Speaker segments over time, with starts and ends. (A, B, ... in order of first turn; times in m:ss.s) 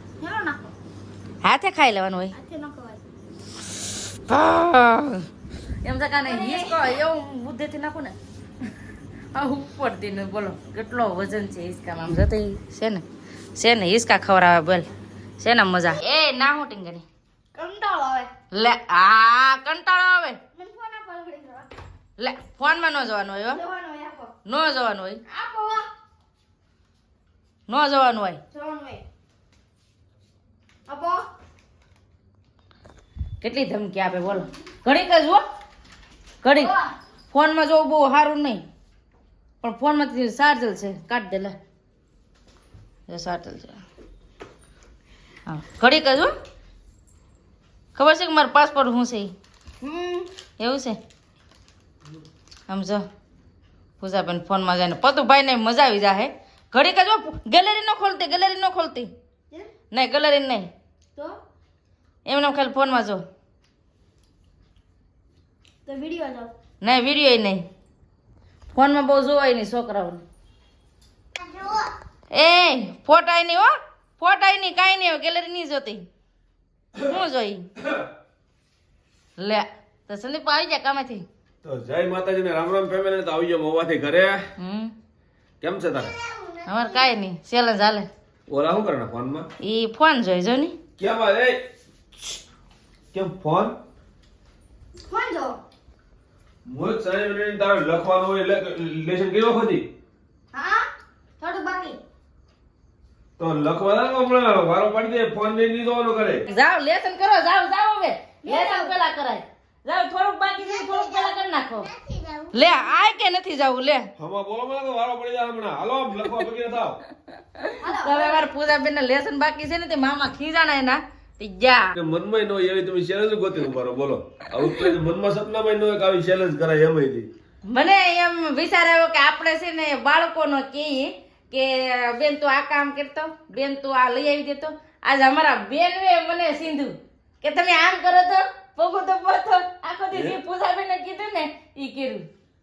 0:00.2-0:00.7 A
0:01.4-0:02.4 B
0:02.3-0:03.0 A
0:04.3-0:05.3 B
0:05.8-0:08.2 B
0:06.2-0:07.0 A
0:09.3-0:13.0 B
0:13.6-0:14.9 B
0:15.4-0:17.1 B
0:17.6-0:18.3 A
0:18.5-0:20.4 B
0:20.6-0:21.7 A
0:22.2-0:23.6 B
0:23.5-0:24.3 A
0:24.4-0:25.2 B
0:25.3-0:25.9 A
0:27.7-0:28.4 B
0:28.5-0:29.0 A
0:30.9-0:31.3 A
0:33.4-0:35.4 B
0:36.4-0:36.7 B
0:36.6-0:36.9 A
0:37.3-0:38.6 B
0:39.6-0:41.6 B
0:43.1-0:43.8 B
0:45.5-0:46.3 B
0:48.0-0:49.3 B
0:49.8-0:50.3 A
0:50.6-0:51.0 B
0:52.7-0:53.0 B
0:54.0-0:59.1 B
0:59.9-1:00.7 B
1:02.3-1:03.2 B
1:05.9-1:06.5 A
1:06.8-1:07.7 B
1:08.7-1:10.2 B
1:11.4-1:11.9 A
1:12.3-1:16.1 B
1:17.0-1:17.7 B
1:19.4-1:21.2 B
1:21.6-1:24.5 C
1:24.6-1:24.9 B
1:25.6-1:26.2 C
1:26.6-1:28.1 B
1:28.5-1:29.5 C
1:29.6-1:30.8 B
1:31.0-1:31.6 C
1:33.1-1:33.8 C
1:35.1-1:35.6 A
1:36.7-1:39.8 C
1:40.5-1:40.9 A
1:41.4-1:42.0 A
1:43.4-1:46.4 C
1:46.5-1:51.9 B
1:48.4-1:48.9 A
1:52.5-1:54.1 B
1:54.2-1:57.0 C
1:57.5-2:02.0 B
1:57.8-1:58.5 A
2:02.0-2:07.3 C
2:04.6-2:04.9 B
2:07.7-2:22.3 B